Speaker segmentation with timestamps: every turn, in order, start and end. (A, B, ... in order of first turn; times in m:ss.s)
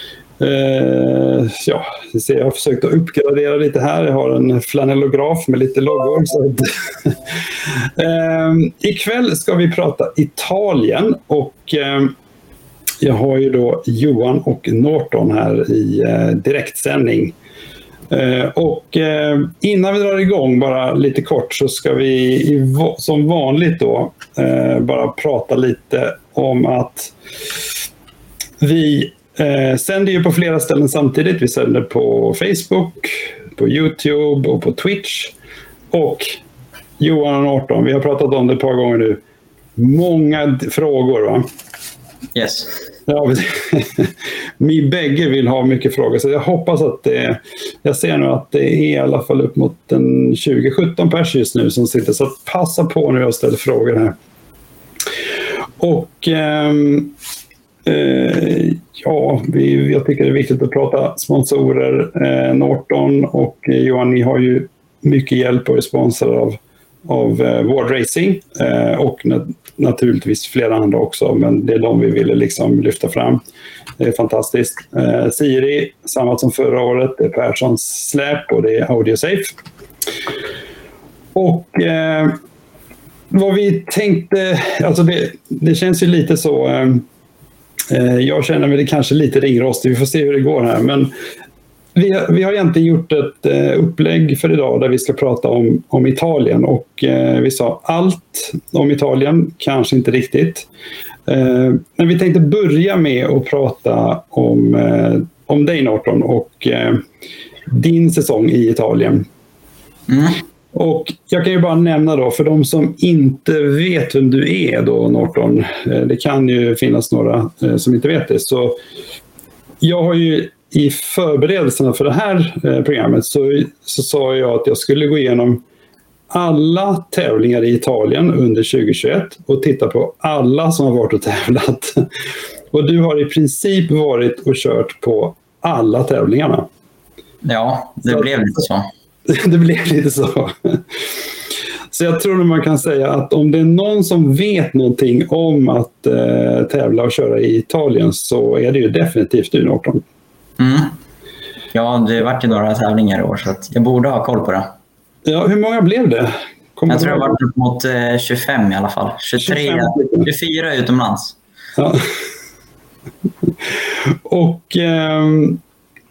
0:00.4-0:12.1 A
0:13.0-0:17.4 A
0:18.1-0:27.2 A
0:28.6-0:35.3 A
0:35.9-0:36.4 A
0:37.0-0:39.2 A
0:39.8-0:41.4 A
0:42.4-0:42.8 B
0:43.1-0:54.2 A
0:55.8-0:57.2 A
0:57.8-1:13.4 A
1:14.0-1:19.6 A
1:21.4-1:22.4 A
1:23.3-1:27.0 A
1:27.9-1:31.1 A
1:32.0-1:40.7 A
1:41.3-1:47.0 A
1:47.7-1:49.3 A
1:50.1-1:50.4 B
1:50.7-1:58.8 A
1:59.8-2:05.6 A
2:06.3-2:12.1 A
2:12.7-2:16.7 A
2:17.4-2:18.9 B
2:19.3-2:21.2 A
2:21.9-2:30.0 A
2:30.6-2:30.9 B
2:31.7-2:34.7 B
2:35.2-2:37.4 A
2:36.9-2:41.4 B
2:39.4-2:40.3 A
2:41.8-2:42.1 A
2:43.7-2:45.6 A